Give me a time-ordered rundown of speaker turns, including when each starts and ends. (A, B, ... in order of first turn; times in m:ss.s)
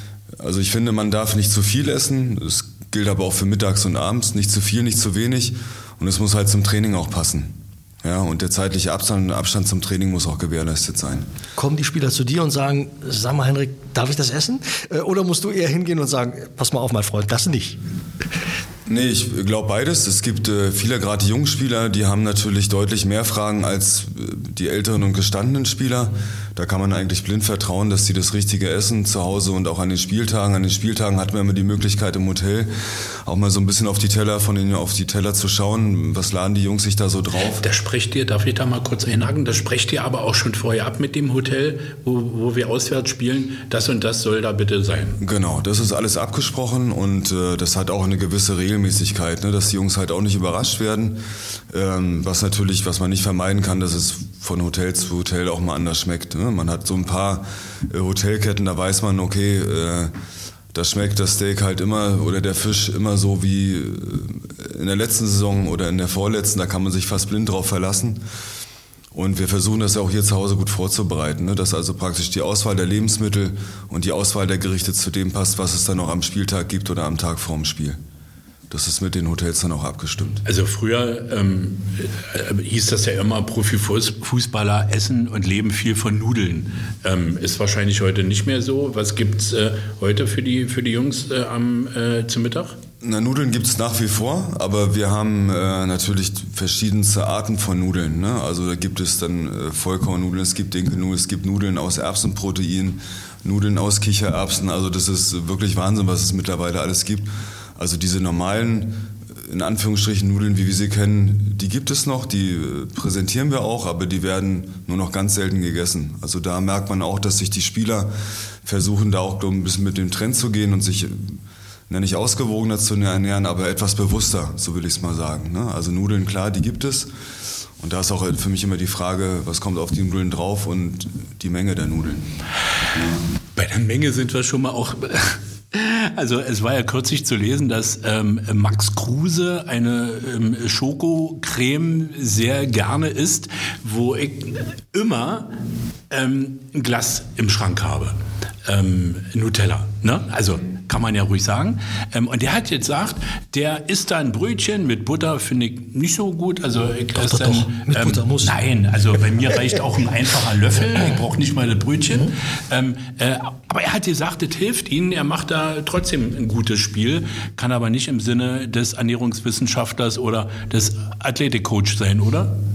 0:00.4-0:11.3 A
0:11.6-0:17.8 B
0:18.9-0:32.7 A
0:33.2-0:37.6 A
0:37.6-0:45.2 C
0:45.2-1:00.1 A
1:00.7-1:08.2 A
1:09.1-1:18.0 A
1:18.7-1:20.4 A
1:20.4-1:32.7 C
1:33.0-1:58.1 A
1:58.6-2:01.4 A
2:01.9-2:07.1 A
2:07.8-2:12.3 A
2:12.9-2:13.2 A
2:13.6-2:25.5 C
2:26.1-2:52.5 C
2:37.1-2:38.6 B